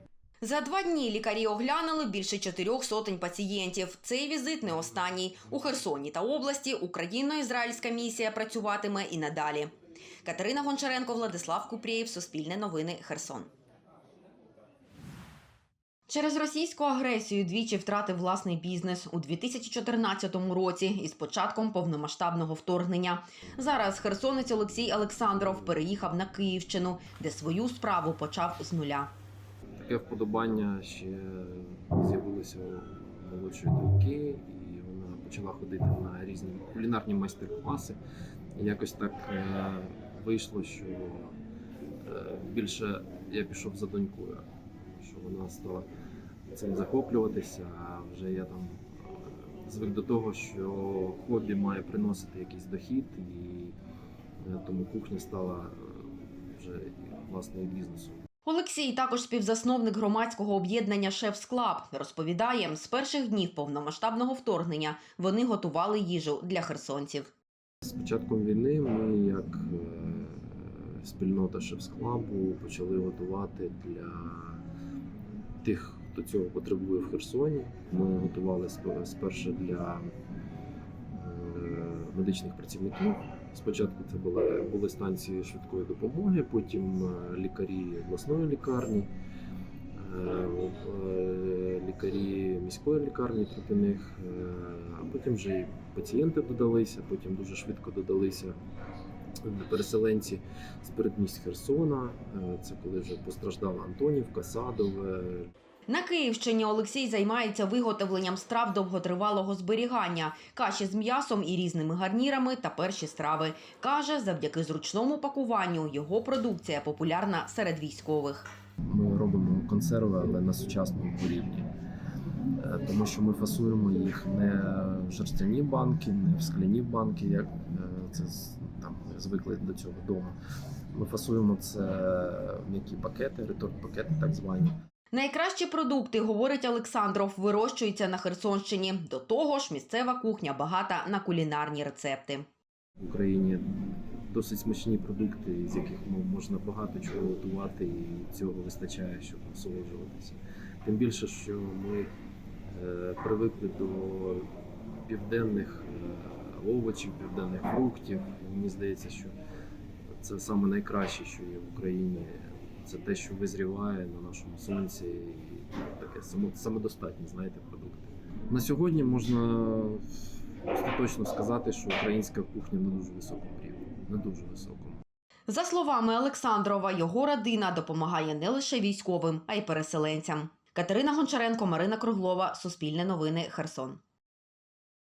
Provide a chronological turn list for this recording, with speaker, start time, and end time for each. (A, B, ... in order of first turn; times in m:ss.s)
0:00.4-0:09.7 A
0:10.2-0:13.5 A
0:16.1-0:29.1 A
0:29.8-0:38.0 B
0:38.6-0:41.3 B
0:42.0-0:44.4 B
0:45.0-0:45.8 B
0:46.5-0:53.8 B
0:54.4-0:58.2 B
0:58.4-1:07.3 A
1:07.8-1:14.6 B
1:15.6-1:20.1 B
1:21.1-1:29.1 B
1:30.0-1:38.6 B
1:39.4-1:45.5 B
1:45.9-1:58.5 A
1:58.8-2:01.7 B
2:02.6-2:10.3 B
2:10.9-2:14.7 B
2:15.1-2:22.5 A
2:23.0-2:23.6 B
2:24.3-2:32.1 B
2:32.7-2:34.5 B
2:35.1-2:39.3 B
2:40.2-2:55.0 B
2:55.5-3:04.0 A